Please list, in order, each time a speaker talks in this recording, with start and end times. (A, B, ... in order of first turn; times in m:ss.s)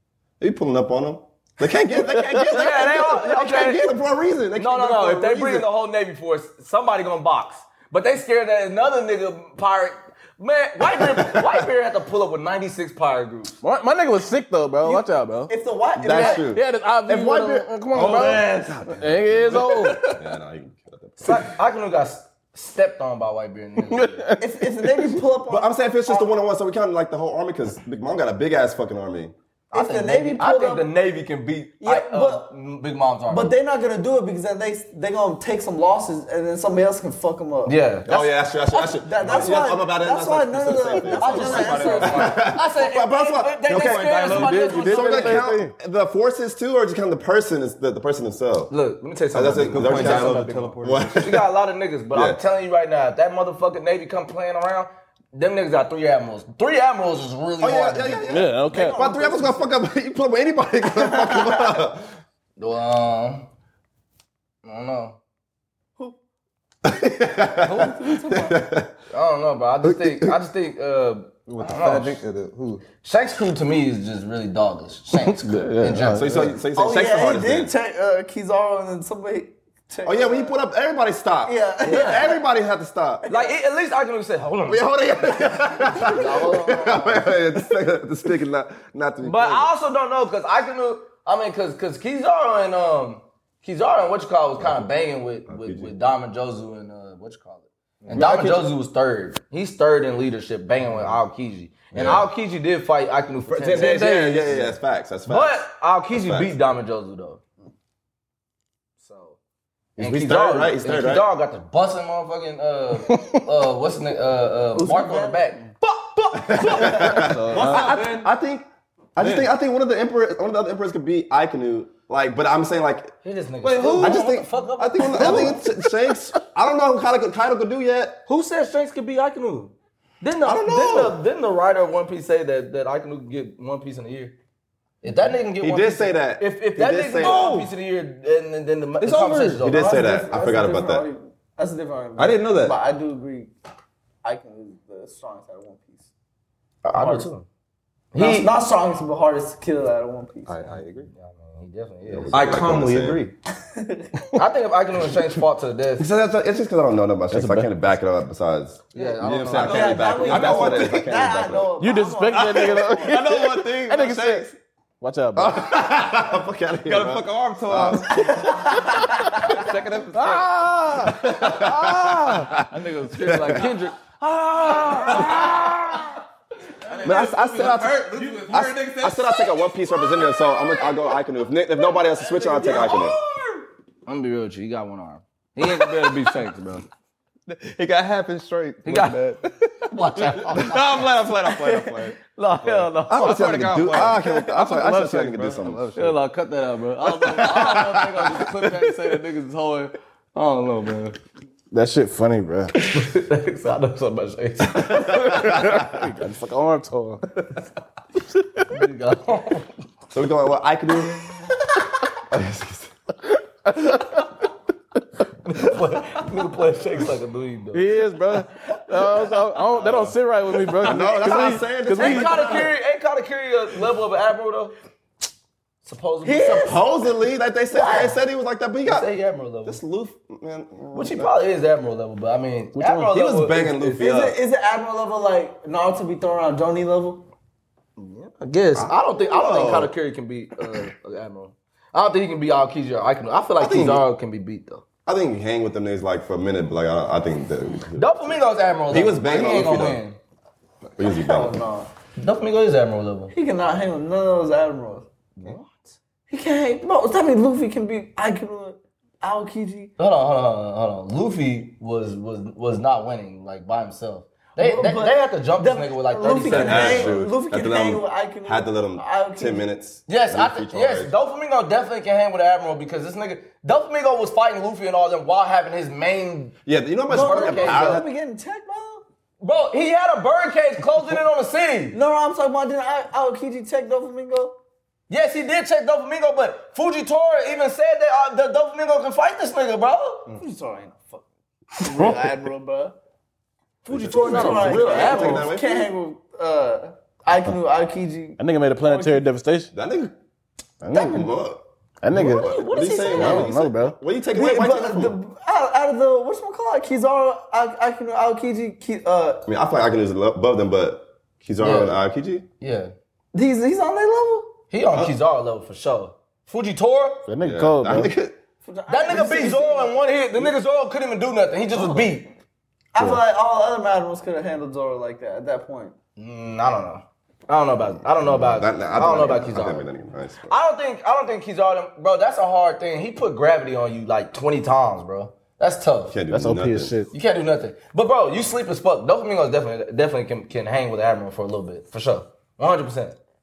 0:00.4-0:05.7 A
0:02.0-0:03.9 B
0:02.1-0:02.5 C
0:04.6-0:13.6 B
0:10.9-0:11.6 A
0:13.6-0:15.5 C
0:14.8-0:16.5 D
0:16.0-0:21.5 A
0:16.1-0:20.2 C
0:17.9-0:18.6 E
0:21.2-0:24.3 B
0:23.9-0:25.1 C
0:24.4-0:26.3 D
0:25.5-0:29.3 A
0:29.7-0:30.9 D
0:29.7-0:33.5 B
0:31.8-0:32.5 D
0:33.3-0:37.8 D
0:37.6-0:39.6 B
0:38.0-0:44.1 A
0:38.9-0:42.5 D
0:41.2-0:45.4 B
0:41.3-0:42.3 E
0:43.7-0:45.0 E
0:44.4-0:45.7 C
0:44.7-0:48.7 A
0:48.7-0:58.3 B
0:49.3-0:51.4 A
0:49.6-0:51.3 E
0:52.1-0:52.4 A
0:57.6-1:02.0 A
0:58.3-0:59.0 C
0:58.7-0:59.7 D
1:01.0-1:01.7 D
1:02.6-1:03.5 B
1:04.6-1:05.2 B
1:06.8-1:08.9 A
1:07.6-1:08.6 D
1:09.1-1:12.2 B
1:09.8-1:10.4 A
1:11.5-1:12.9 E
1:12.9-1:16.5 B
1:15.3-1:16.5 C
1:16.1-1:17.7 A
1:16.7-1:20.6 D
1:20.0-1:23.2 A
1:21.4-1:22.4 D
1:21.8-1:22.3 B
1:23.2-1:23.5 D
1:23.3-1:24.8 B
1:24.6-1:29.7 A
1:26.0-1:27.1 D
1:26.0-1:27.3 B
1:29.2-1:44.8 B
1:34.6-1:34.9 A
1:35.4-1:35.9 A
1:38.0-1:38.6 E
1:38.1-1:38.7 A
1:41.9-1:42.3 A
1:43.5-1:46.6 A
1:45.3-1:47.4 B
1:49.0-1:49.4 B
1:50.0-1:51.3 A
1:50.0-1:58.1 B
1:53.1-1:53.4 C
1:54.7-1:55.6 D
1:56.3-2:03.1 A
1:56.5-1:57.3 D
1:57.1-1:58.0 C
1:57.4-1:58.3 E
2:03.2-2:05.6 B
2:03.6-2:04.3 E
2:03.8-2:08.2 A
2:05.2-2:05.5 E
2:08.2-2:14.4 B
2:10.4-2:11.2 A
2:15.0-2:20.0 B
2:15.6-2:17.5 A
2:17.2-2:17.7 E
2:19.0-2:19.7 E
2:19.6-2:21.1 A
2:19.7-2:23.5 D
2:22.2-2:22.7 E
2:22.2-2:22.7 A
2:24.2-2:26.0 D
2:26.8-2:27.5 B
2:27.0-2:27.3 E
2:28.1-2:28.5 B
2:28.2-2:30.6 D
2:30.4-2:31.1 E
2:31.1-2:32.5 B
2:32.1-2:33.2 A
2:32.3-2:33.3 E
2:33.6-2:34.2 D
2:34.3-2:36.1 B
2:36.0-2:41.7 A
2:37.3-2:37.7 C
2:38.9-2:40.7 B
2:39.0-2:41.1 E
2:39.5-2:43.2 D
2:41.8-2:44.5 C
2:42.2-2:44.6 E
2:45.0-2:45.7 C
2:45.4-2:48.7 A
2:46.8-2:48.4 E
2:48.1-2:49.7 D
2:49.4-2:50.7 E
2:50.1-2:52.6 C
2:51.0-2:53.7 A
2:52.7-2:55.6 B
2:54.7-2:56.0 E
2:56.9-2:59.4 E
2:56.9-2:57.1 B
2:57.0-3:03.2 A
3:02.5-3:03.6 D
3:02.6-3:02.9 B
3:04.0-3:06.9 B
3:07.5-3:16.2 E
3:08.8-3:09.2 B
3:09.9-3:10.7 B
3:11.5-3:12.0 D
3:12.3-3:13.6 B
3:13.1-3:16.0 A
3:15.9-3:21.2 B
3:17.2-3:19.2 E
3:21.7-3:22.8 C
3:22.7-3:25.6 B
3:24.9-3:27.3 C
3:28.7-3:29.7 B
3:30.1-3:31.4 A
3:32.3-3:32.9 A
3:35.4-3:38.0 B
3:37.7-3:42.6 C
3:40.8-3:42.7 A
3:41.9-3:44.7 B
3:45.8-3:46.8 B
3:46.2-3:46.8 D
3:46.5-3:49.1 A
3:47.7-3:48.1 B
3:48.8-3:49.8 B
3:49.6-3:51.3 A
3:50.9-3:54.0 B
3:52.7-3:53.1 C
3:53.1-3:54.4 A
3:53.8-3:57.3 D
3:58.0-4:04.8 B
3:58.7-3:59.9 A
4:03.6-4:04.0 A
4:05.0-4:10.0 A
4:07.9-4:10.2 B
4:11.0-4:11.6 A
4:11.0-4:11.9 D
4:12.2-4:13.3 B
4:13.3-4:15.1 D
4:15.4-4:16.0 B
4:16.3-4:19.9 D
4:20.0-4:27.2 B
4:24.6-4:29.6 D
4:26.4-4:31.1 A
4:30.1-4:36.6 B
4:36.6-4:38.1 A
4:37.1-4:38.0 B
4:37.1-4:39.0 D
4:39.4-4:42.0 B
4:41.9-4:44.6 D
4:45.1-4:50.3 B
4:50.3-4:51.2 D
4:51.8-4:53.0 D
4:51.9-4:52.2 C
4:53.8-4:55.5 B
4:53.9-4:55.9 A
4:54.1-4:58.4 D
4:58.4-4:59.7 C
4:59.7-5:00.1 A
5:00.8-5:01.3 C
5:00.9-5:05.2 A
5:02.0-5:04.0 C
5:02.1-5:03.5 B
5:04.3-5:09.4 D
5:09.5-5:12.4 A
5:11.6-5:12.0 B
5:12.6-5:12.9 B
5:13.3-5:14.6 D
5:14.7-5:17.3 B
5:17.3-5:18.1 C
5:17.4-5:18.4 A
5:18.6-5:20.5 D
5:18.9-5:22.3 B
5:22.9-5:25.9 D
5:26.2-5:29.9 B
5:28.2-5:30.5 A
5:30.5-5:36.2 B
5:36.1-5:36.9 A
5:36.3-5:37.1 C
5:37.1-5:43.2 B